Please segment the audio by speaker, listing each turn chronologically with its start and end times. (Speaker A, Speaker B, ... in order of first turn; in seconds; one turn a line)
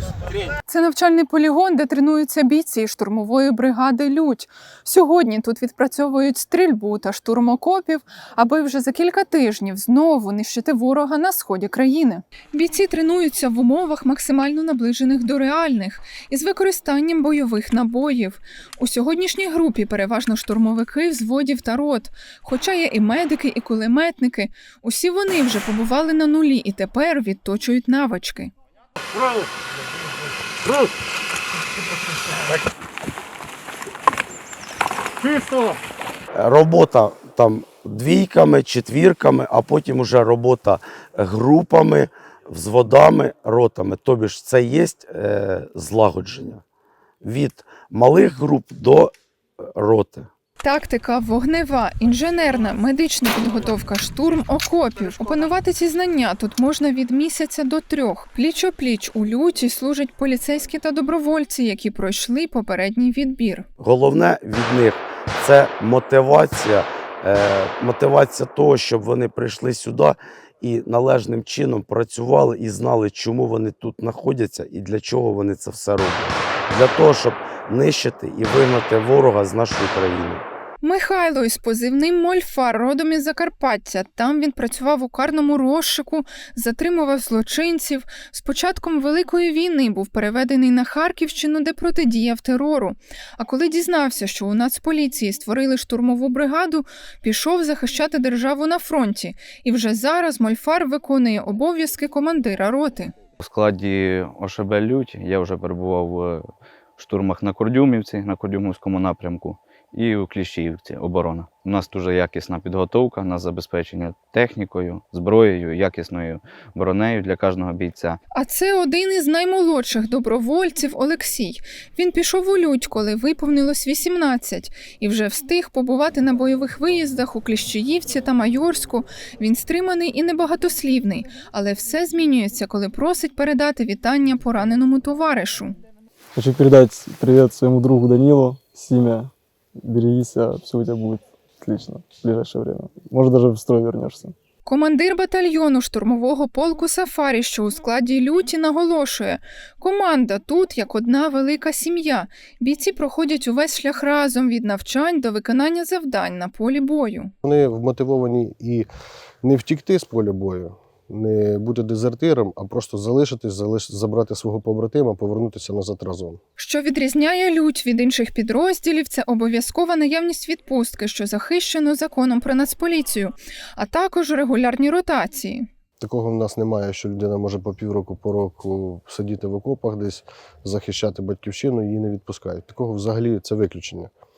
Speaker A: 0.7-28.5
Speaker B: 36.3-46.6
Speaker B: 47.2-49.1
Speaker B: 49.8-50.3
Speaker A: 50.6-63.7
Speaker B: 63.8-80.5
Speaker A: 80.8-103.1
Speaker C: 103.4-106.5
Speaker C: 107.0-118.2
Speaker A: 118.3-135.8
Speaker D: 136.3-144.3
Speaker A: 144.6-157.3
Speaker E: 157.4-158.9
Speaker E: 159.4-166.4
Speaker A: 166.6-175.7
Speaker E: 176.0-184.1